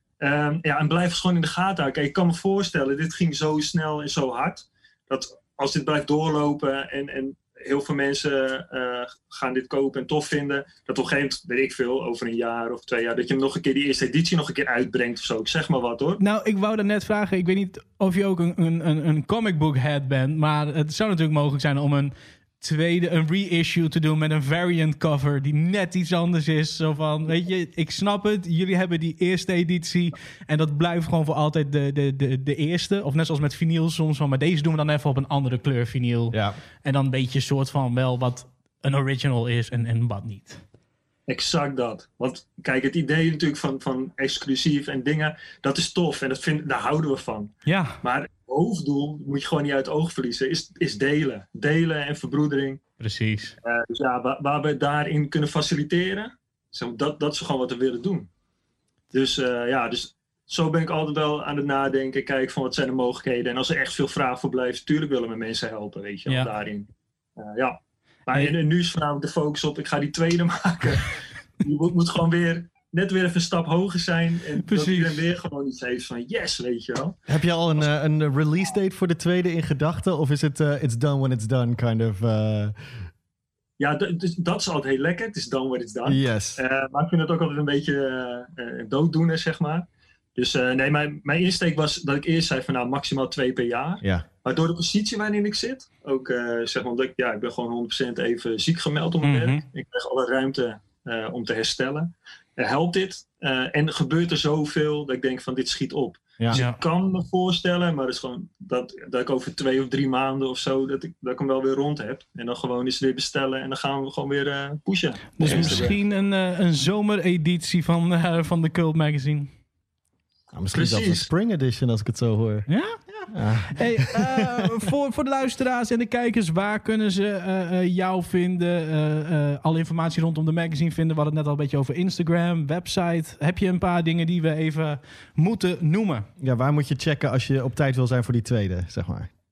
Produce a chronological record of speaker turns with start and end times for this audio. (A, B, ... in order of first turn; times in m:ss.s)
0:00.2-0:16.2 A
0:16.2-0:40.6 B
0:36.3-0:36.6 C
0:41.3-0:52.8 A
0:47.7-0:48.0 B
0:53.0-0:53.5 B
0:53.6-0:58.3 A
0:59.1-1:17.2 A
1:14.6-1:15.2 B
1:17.3-1:22.8 C
1:23.8-1:55.9 A
1:26.0-1:26.6 C
1:39.2-1:39.6 B
1:46.5-1:46.8 B
1:55.4-1:59.5 B
1:55.4-1:55.9 C
2:00.5-2:02.7 C
2:00.7-2:01.3 A
2:02.7-2:16.3 B
2:03.3-2:04.7 C
2:16.4-2:19.3 C